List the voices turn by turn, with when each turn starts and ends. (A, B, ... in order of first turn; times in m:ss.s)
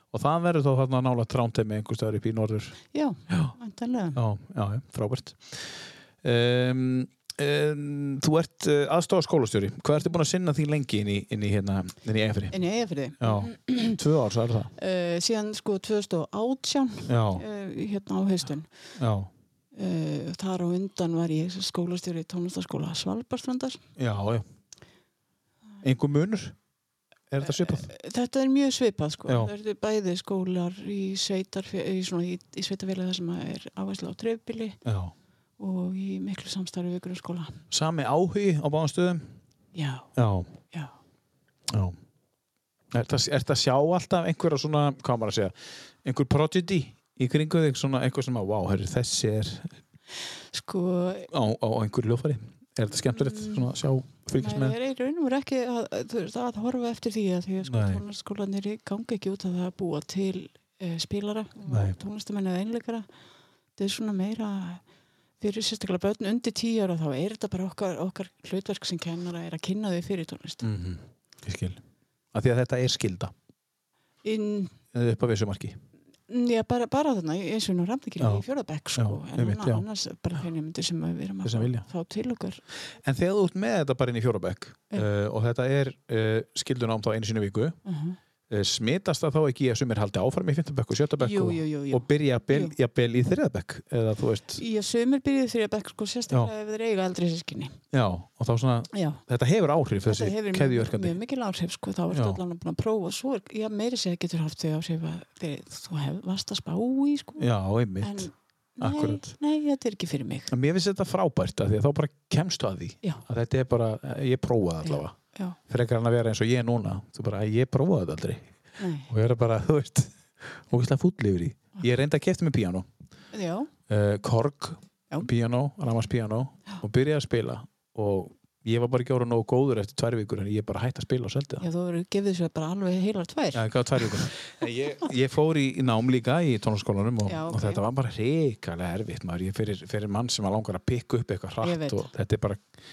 0:00.1-0:02.8 A
0:02.9-0:04.2 B
0:03.3-0:03.5 A
0:04.1-0:12.6 A
0:12.5-0:14.0 B
0:13.2-0:14.7 A
0:14.8-0:18.7 B
0:17.1-0:17.4 A
0:19.0-0:19.3 A
0:19.7-0:23.8 B
0:24.0-0:24.4 A
0:25.8-0:26.6 A
0:27.3-0:27.9 A
0:27.4-0:34.8 B
0:29.3-0:29.5 A
0:34.8-0:35.1 A
0:35.6-0:37.6 B
0:37.7-0:39.3 A
0:39.7-0:40.1 B
0:40.2-0:40.5 A
0:41.7-0:42.0 A
0:42.9-0:49.8 A
0:50.5-0:51.3 B
0:51.3-0:54.8 A
0:53.0-0:53.7 B
0:54.4-1:03.0 B
0:57.6-0:58.0 A
1:01.7-1:02.0 A
1:03.8-1:04.8 B
1:05.4-1:10.7 B
1:10.6-1:11.8 A
1:12.3-1:13.3 A
1:14.2-1:14.7 B
1:14.9-1:15.8 A
1:16.3-1:22.6 B
1:18.2-1:19.9 A
1:21.4-1:21.9 A
1:23.0-1:27.8 A
1:27.9-1:28.2 B
1:28.5-1:34.6 A
1:31.2-1:32.7 B
1:34.6-1:37.8 B
1:37.9-1:41.2 A
1:38.9-1:39.2 B
1:40.0-1:47.5 B
1:42.1-1:42.4 A
1:47.4-1:49.3 A
1:48.0-1:50.5 B
1:50.5-1:55.2 A
1:54.8-1:55.6 B
1:55.7-1:58.5 A
1:58.8-1:59.1 B
1:59.1-2:02.9 A
2:03.3-2:03.7 B
2:03.9-2:11.6 A
2:11.6-2:14.3 B
2:13.5-2:22.6 A
2:17.2-2:17.9 B
2:21.6-2:22.1 B